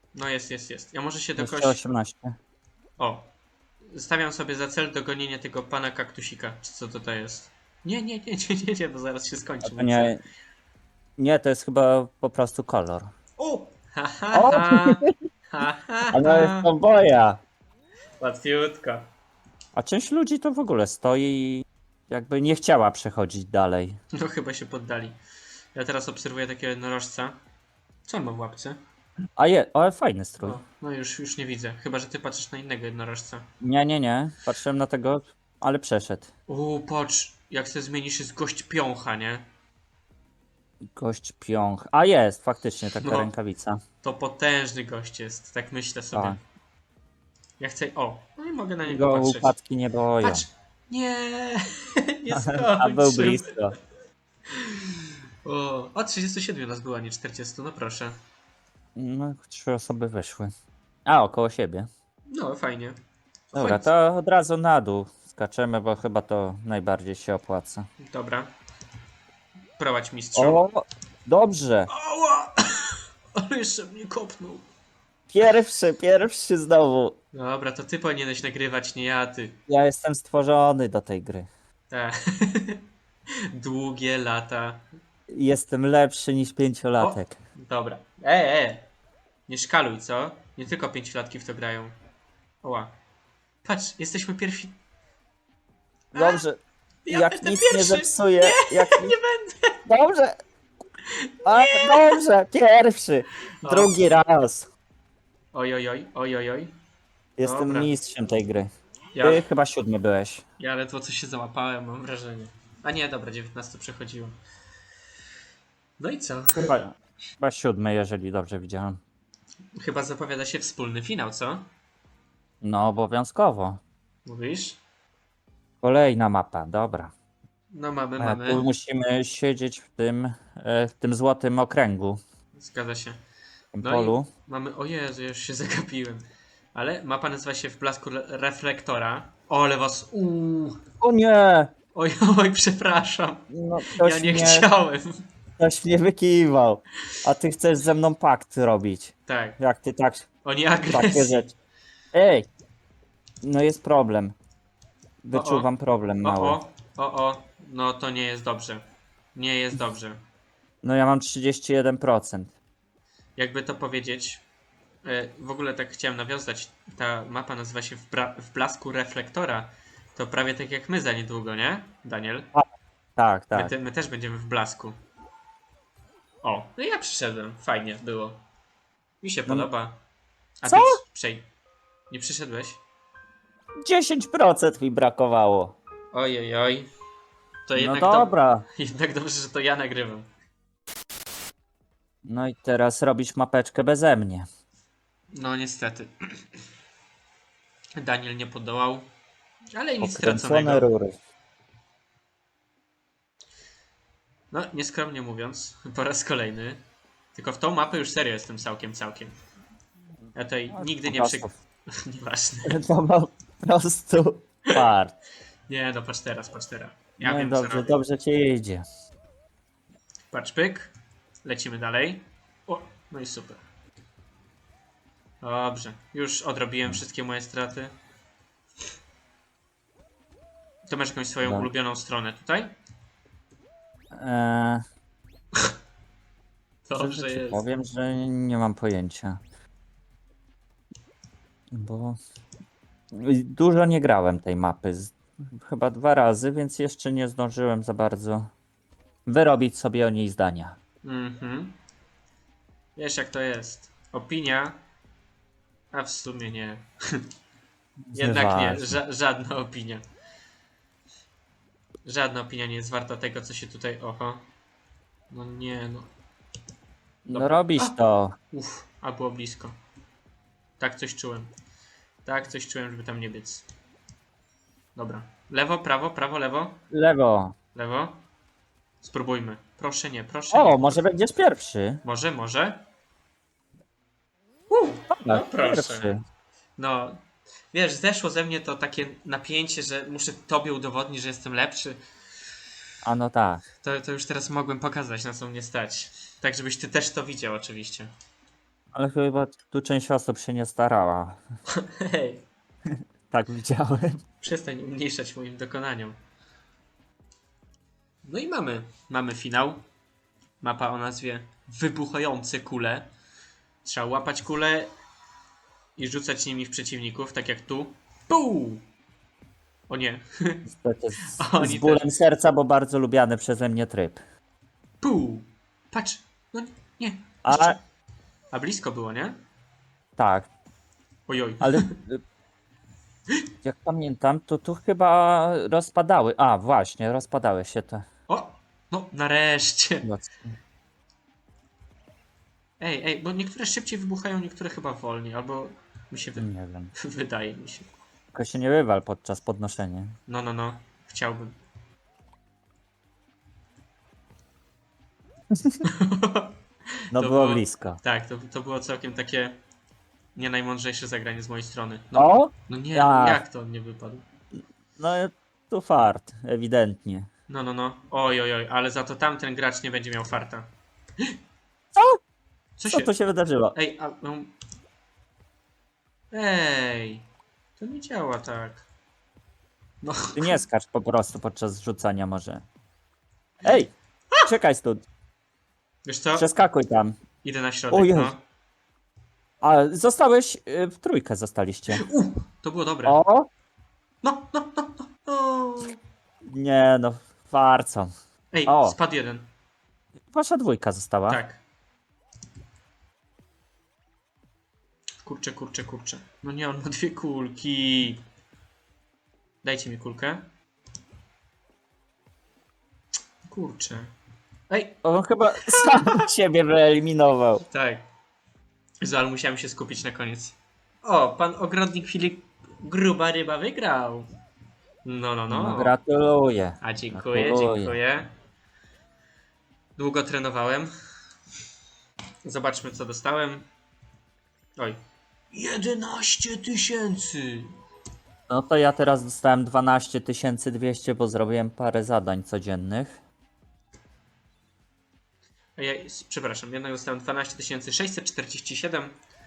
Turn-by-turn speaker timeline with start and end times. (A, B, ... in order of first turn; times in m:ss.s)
0:00.1-0:01.8 A
0:01.4-0:02.3 B
0:03.0-0:03.3 A
0:03.9-0:10.1 A
0:09.7-0:10.2 B
0:11.2-0:13.1 B
0:13.4-0:16.7 A
0:14.3-0:15.1 B
0:16.1-0:17.4 B
0:18.2-0:19.0 A
0:19.8-0:24.0 B
0:24.1-0:25.2 A
0:25.8-0:27.4 A
0:28.0-0:28.8 A
0:29.4-0:30.6 B
0:30.4-0:33.4 A
0:33.6-0:36.3 B
0:36.5-0:39.4 A
0:40.9-0:43.8 B
0:42.9-0:43.3 A
0:44.0-0:46.4 A
0:46.1-0:46.4 B
0:47.6-0:49.5 A
0:48.8-0:50.4 B
0:50.2-0:53.5 A
0:52.3-0:53.8 B
0:54.5-0:58.2 A
0:59.0-1:00.5 B
1:01.0-1:01.9 B
1:02.3-1:03.0 A
1:03.5-1:03.9 A
1:03.5-1:07.9 B
1:08.0-1:08.5 A
1:09.8-1:10.6 A
1:10.4-1:11.9 B
1:11.9-1:14.6 A
1:15.3-1:17.1 B
1:17.3-1:19.6 A
1:19.7-1:21.5 B
1:21.9-1:22.8 A
1:23.5-1:24.8 A
1:25.3-1:27.4 B
1:27.0-1:28.8 A
1:29.5-1:31.9 A
1:32.6-1:32.9 A
1:33.6-1:34.8 A
1:36.1-1:36.4 A
1:36.1-1:36.6 B
1:37.0-1:39.8 A
1:37.1-1:39.1 B
1:39.9-1:40.4 B
1:41.1-1:42.2 A
1:41.4-1:44.7 B
1:43.6-1:43.9 A
1:45.5-1:46.7 A
1:47.4-1:48.7 B
1:47.4-1:47.9 A
1:49.1-1:49.4 A
1:49.2-1:50.4 B
1:50.6-1:54.4 A
1:56.0-1:56.7 A
1:56.5-1:59.0 B
1:59.8-2:01.6 A
2:02.6-2:03.8 B
2:04.2-2:04.8 A
2:05.8-2:07.1 B
2:07.7-2:08.6 A
2:08.2-2:12.2 B
2:12.6-2:13.2 A
2:13.7-2:14.3 B
2:13.8-2:20.8 A
2:21.0-2:21.7 B
2:21.9-2:25.2 A
2:23.5-2:24.7 B
2:25.6-2:30.3 B
2:29.2-2:29.6 A
2:30.4-2:31.4 A
2:30.9-2:31.5 B
2:32.1-2:32.5 B
2:33.4-2:34.3 B
2:35.2-2:36.6 B
2:35.3-2:35.7 A
2:36.2-2:38.8 A
2:39.4-2:40.2 A
2:40.8-2:42.5 B
2:43.4-2:44.4 A
2:45.0-2:52.5 A
2:53.2-2:53.7 B
2:53.5-2:55.0 A
2:56.4-2:58.4 A
2:59.2-3:00.0 A
3:00.6-3:01.4 A
3:00.6-3:01.0 B
3:02.1-3:02.8 A
3:03.8-3:05.8 B
3:06.1-3:06.9 A
3:07.6-3:10.3 A
3:07.8-3:08.6 B
3:12.2-3:14.4 B
3:15.3-3:16.1 A
3:18.0-3:19.1 A
3:19.7-3:20.9 A
3:20.0-3:21.2 B
3:24.5-3:26.8 A
3:27.3-3:29.3 A
3:30.3-3:32.8 A
3:30.7-3:31.5 B
3:32.6-3:35.1 B
3:35.7-3:38.0 A
3:37.2-3:38.8 B
3:40.3-3:40.9 A
3:41.4-3:43.6 A
3:45.4-3:47.9 A
3:50.9-3:52.7 A
3:54.2-3:54.8 B
3:56.9-3:57.6 A
3:57.0-3:59.4 B
4:01.7-4:02.2 B
4:03.1-4:08.5 B
4:09.2-4:10.8 B
4:11.0-4:11.8 A
4:13.0-4:14.8 A
4:15.9-4:17.2 A
4:18.1-4:19.0 B
4:18.1-4:20.0 A
4:22.0-4:24.4 A
4:25.3-4:26.1 A
4:27.2-4:28.4 B
4:27.3-4:27.9 A
4:28.5-4:29.7 A
4:30.8-4:31.5 A
4:32.2-4:33.6 A
4:35.0-4:36.8 A
4:36.9-4:37.5 B
4:37.8-4:38.2 A
4:39.0-4:40.9 A
4:40.5-4:42.0 B
4:42.0-4:42.8 A
4:44.7-4:46.1 A
4:45.1-4:46.2 B
4:46.8-4:47.2 A
4:47.7-4:52.0 A
4:53.0-4:53.6 B
4:53.8-4:58.1 A
4:58.9-5:01.4 B
5:01.7-5:02.4 A
5:03.3-5:04.2 B
5:04.4-5:06.2 A
5:08.2-5:09.8 A
5:10.6-5:13.1 A
5:13.8-5:14.9 A
5:16.0-5:18.8 A
5:19.9-5:20.6 A
5:20.7-5:24.2 B
5:21.3-5:22.1 A
5:25.0-5:27.8 A
5:27.4-5:27.8 B
5:28.5-5:29.4 A
5:30.2-5:30.5 B
5:31.3-5:31.9 A
5:31.6-5:32.2 B
5:33.6-5:38.0 B
5:38.3-5:40.0 A
5:40.0-5:40.5 B
5:42.8-5:47.9 A
5:46.4-5:46.9 B
5:48.3-5:50.1 B
5:50.3-5:51.6 A
5:55.8-5:56.6 A
5:57.1-5:59.6 A
5:57.1-5:58.0 B
6:00.4-6:04.2 A
6:02.1-6:03.4 B
6:05.0-6:07.3 B
6:07.5-6:11.3 A
6:12.8-6:13.1 A
6:12.9-6:13.8 B
6:13.8-6:14.5 A
6:16.3-6:17.2 A
6:17.8-6:18.8 A
6:20.0-6:20.6 A
6:20.4-6:22.6 B
6:23.6-6:23.9 B
6:24.4-6:25.0 B
6:26.0-6:26.4 A
6:26.4-6:27.2 B
6:27.4-6:28.4 A
6:27.9-6:28.3 B
6:29.6-6:32.0 B
6:31.9-6:33.2 A
6:33.0-6:33.5 B
6:34.2-6:36.0 A
6:36.4-6:38.1 B
6:38.5-6:39.5 A
6:38.6-6:39.0 B
6:40.3-6:41.4 B
6:41.3-6:41.6 A
6:45.2-6:48.2 A
6:49.6-6:50.5 A
6:53.4-6:54.1 A
6:54.7-6:55.0 A
6:55.0-6:57.6 B
6:55.5-6:56.3 A
6:57.7-6:58.0 A
6:59.0-7:04.3 A
7:05.0-7:05.9 A
7:05.5-7:08.0 B
7:06.8-7:08.3 A
7:10.0-7:10.9 A
7:12.4-7:13.6 A
7:15.5-7:17.7 A
7:18.5-7:23.2 B
7:25.8-7:29.1 A